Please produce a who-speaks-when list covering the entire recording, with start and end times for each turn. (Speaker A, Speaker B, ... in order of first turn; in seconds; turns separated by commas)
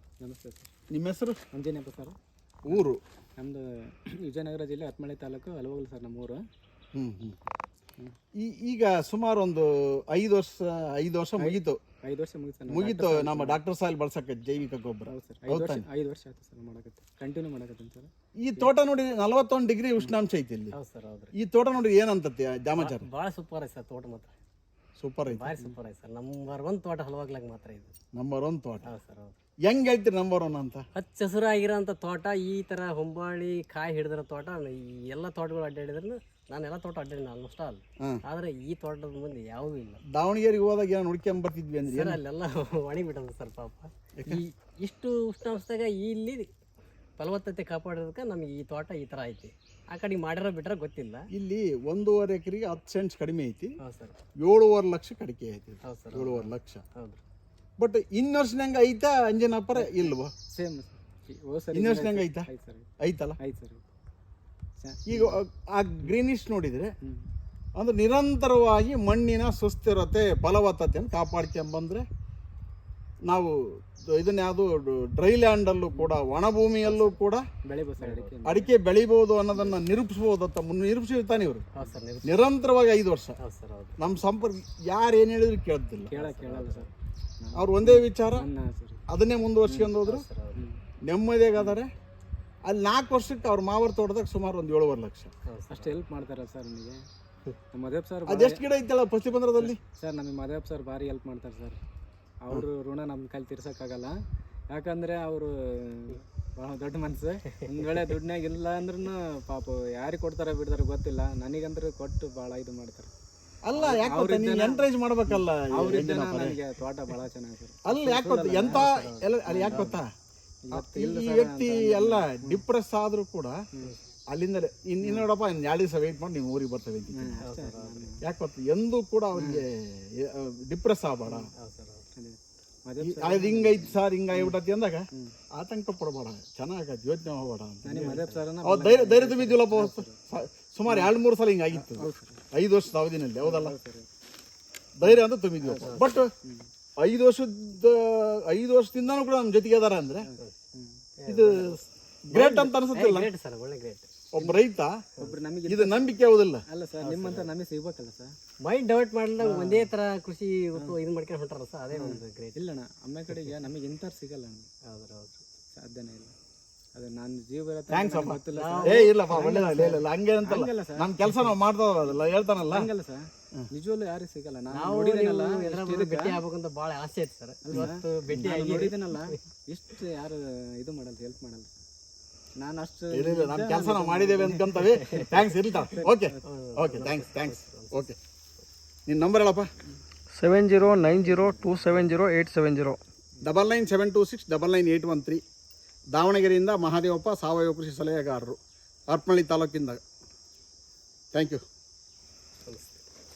Speaker A: 0.2-0.7, Speaker B: 0.9-1.4, Speaker A: 1.5-2.1, Speaker B: 2.6-3.0, Speaker A: 2.7-6.4, Speaker B: 7.0-7.4, Speaker B: 8.4-11.8, Speaker A: 11.4-13.6, Speaker B: 12.7-15.8, Speaker A: 15.1-18.7, Speaker B: 18.4-20.7, Speaker C: 20.7-21.3, Speaker B: 21.3-23.1, Speaker C: 22.8-24.3, Speaker B: 25.0-25.6, Speaker C: 25.3-27.9, Speaker B: 28.1-28.9, Speaker C: 28.8-29.4, Speaker B: 29.7-30.8, Speaker C: 30.9-40.0, Speaker B: 40.1-42.2, Speaker C: 41.9-46.5, Speaker C: 47.2-51.3, Speaker B: 51.3-53.8, Speaker C: 53.8-54.2, Speaker B: 54.4-56.8, Speaker C: 55.8-57.2, Speaker B: 57.8-60.3, Speaker A: 59.8-62.9, Speaker B: 61.7-62.5, Speaker B: 63.0-63.4, Speaker A: 63.4-63.8, Speaker A: 64.8-65.4, Speaker B: 65.1-66.9, Speaker A: 67.0-67.3, Speaker B: 67.8-72.0, Speaker B: 73.2-77.4, Speaker A: 75.9-76.2, Speaker A: 76.8-78.7, Speaker C: 78.0-78.4, Speaker B: 78.5-81.7, Speaker C: 81.7-82.5, Speaker B: 82.2-83.4, Speaker C: 83.4-84.0, Speaker B: 84.0-86.1, Speaker C: 86.1-86.9, Speaker A: 86.1-89.0, Speaker B: 87.5-88.5, Speaker B: 89.1-90.3, Speaker A: 89.7-89.9, Speaker C: 90.0-90.7, Speaker B: 91.0-91.9, Speaker B: 92.6-95.3, Speaker C: 95.5-96.0, Speaker A: 95.7-97.0, Speaker A: 97.7-98.6, Speaker B: 98.2-99.8, Speaker A: 99.6-101.8, Speaker A: 102.4-104.2, Speaker A: 104.7-113.1, Speaker B: 113.6-116.6, Speaker A: 113.8-118.9, Speaker B: 117.8-120.1, Speaker C: 118.7-119.9, Speaker A: 119.5-120.0, Speaker A: 120.6-122.6, Speaker B: 120.7-123.6, Speaker B: 124.3-127.4, Speaker A: 125.0-125.3, Speaker A: 127.1-128.2, Speaker C: 127.4-128.1, Speaker B: 128.2-131.5, Speaker A: 129.3-129.6, Speaker C: 131.5-132.1, Speaker A: 132.1-134.6, Speaker B: 133.0-143.7, Speaker A: 137.8-140.2, Speaker C: 137.9-138.5, Speaker A: 140.9-141.1, Speaker A: 141.7-142.4, Speaker A: 143.4-144.1, Speaker B: 145.0-146.3, Speaker A: 145.0-146.7, Speaker C: 145.8-146.2, Speaker B: 147.0-150.3, Speaker A: 150.2-151.0, Speaker C: 151.2-154.1, Speaker B: 151.3-151.8, Speaker B: 152.3-153.3, Speaker B: 154.3-155.0, Speaker A: 155.2-158.3, Speaker B: 155.6-156.6, Speaker C: 157.0-157.5, Speaker C: 158.6-162.6, Speaker A: 159.4-159.9, Speaker A: 161.9-164.7, Speaker C: 164.8-165.4, Speaker A: 165.8-166.3, Speaker A: 166.9-169.4, Speaker B: 167.9-172.9, Speaker C: 168.5-170.1, Speaker A: 170.4-171.5, Speaker A: 172.1-176.4, Speaker C: 174.7-179.4, Speaker A: 177.6-181.8, Speaker B: 177.7-178.5, Speaker A: 182.6-186.4, Speaker B: 183.1-188.2, Speaker C: 184.8-185.4, Speaker C: 186.4-188.1, Speaker B: 189.1-189.7, Speaker D: 190.3-193.0, Speaker A: 191.0-192.2, Speaker B: 193.4-195.4, Speaker B: 196.1-200.0, Speaker B: 201.3-201.6, Speaker C: 202.7-203.0